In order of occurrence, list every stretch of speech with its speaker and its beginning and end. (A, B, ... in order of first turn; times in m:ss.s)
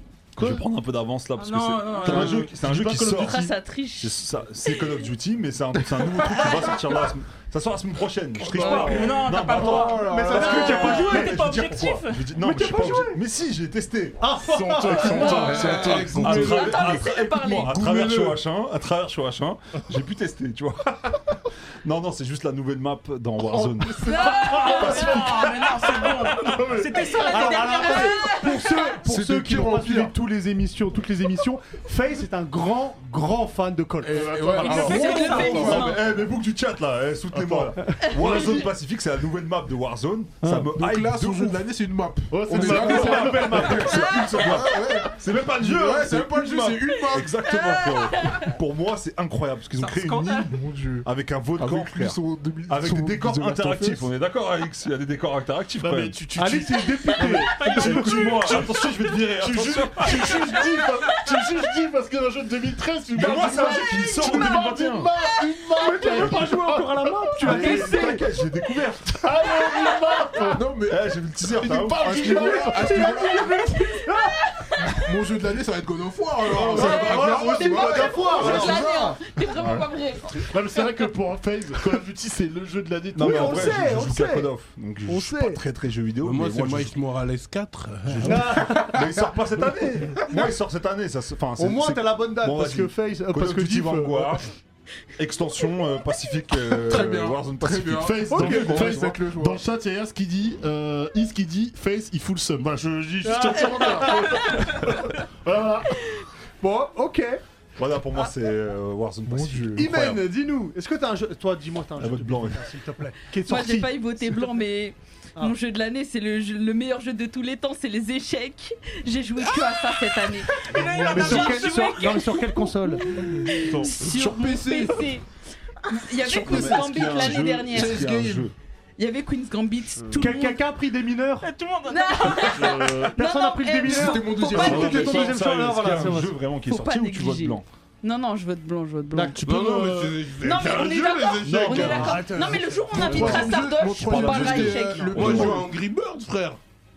0:00.4-0:14.3 A
0:00.4-0:00.6 B
0:01.4-0:02.5 C
0:02.0-0:03.5 B
0:02.1-0:02.4 D
0:03.1-0:05.1 D
0:06.4-0:06.9 D
0:08.5-0:09.2 D
0:08.5-0:12.2 C
0:09.4-0:10.7 E
0:10.0-0:11.4 F
0:12.4-0:13.2 F
0:14.2-0:15.6 F
0:14.4-0:16.8 B
0:14.9-0:16.4 E
0:15.0-0:15.7 D
0:15.1-0:17.0 G
0:15.6-0:24.2 A
0:16.3-0:17.8 D
0:17.7-0:18.4 G
0:23.5-0:24.3 B
0:24.0-0:25.3 D
0:24.2-0:25.2 F
0:24.2-0:28.4 C
0:24.8-0:25.5 A
0:24.8-0:25.5 B
0:26.3-0:27.2 B
0:27.2-0:28.9 D
0:27.3-0:34.4 F
0:29.0-0:30.2 E
0:34.0-0:36.0 E
0:34.1-0:35.6 B
0:34.6-0:35.6 C
0:34.6-0:36.0 D
0:35.2-0:41.6 A
0:37.3-0:38.6 B
0:38.2-0:38.5 D
0:38.2-0:38.5 F
0:40.4-0:40.7 F
0:40.7-0:47.5 E
0:42.3-0:43.9 B
0:42.6-0:44.1 F
0:42.8-0:56.2 A
0:44.0-0:44.3 D
0:47.1-0:48.6 D
0:49.8-0:50.5 C
0:50.5-0:54.1 E
0:55.8-1:07.8 B
0:56.4-0:58.2 F
0:57.5-1:00.4 A
1:00.4-1:00.8 D
1:03.1-1:05.1 A
1:05.8-1:08.3 F
1:06.2-1:06.5 A
1:07.4-1:09.5 A
1:09.1-1:10.7 B
1:10.5-1:13.6 E
1:10.9-1:12.4 A
1:11.4-1:13.1 B
1:12.1-1:14.4 F
1:13.6-1:15.0 D
1:14.8-1:19.4 E
1:16.5-1:18.7 A
1:16.6-1:17.4 B
1:16.7-1:21.0 D
1:17.0-1:18.8 F
1:19.6-1:24.0 B
1:23.2-1:27.0 A
1:23.2-1:24.5 F
1:25.0-1:25.6 F
1:26.2-1:28.8 G
1:28.1-1:34.5 A
1:28.2-1:29.1 F
1:29.7-1:30.4 F
1:31.6-1:34.4 F
1:35.2-1:39.0 A
1:36.8-1:39.6 E
1:37.9-1:46.0 B
1:38.3-1:38.8 F
1:43.2-1:44.7 F
1:46.6-1:47.4 F
1:47.8-1:50.3 A
1:49.3-1:49.9 E
1:49.8-1:54.5 F
1:52.0-1:52.7 A
1:53.4-2:05.2 D
2:00.5-2:02.5 C
2:01.0-2:03.1 F
2:03.7-2:03.9 A
2:04.1-2:04.8 E
2:04.1-2:04.9 G
2:05.9-2:08.1 D
2:06.2-2:08.5 A
2:06.5-2:08.5 E
2:09.0-2:10.6 D
2:10.2-2:11.5 F
2:11.4-2:12.9 C
2:11.9-2:14.9 D
2:12.4-2:13.2 B
2:13.2-2:16.4 F
2:13.9-2:15.3 E
2:14.6-2:17.7 A
2:14.7-2:15.2 B
2:16.6-2:19.5 D
2:19.1-2:19.4 F
2:19.4-2:20.2 B
2:19.4-2:22.3 G
2:20.4-2:25.5 D
2:21.4-2:22.1 A
2:21.9-2:22.9 F
2:22.9-2:25.7 E
2:23.0-2:25.7 A
2:25.2-2:26.6 G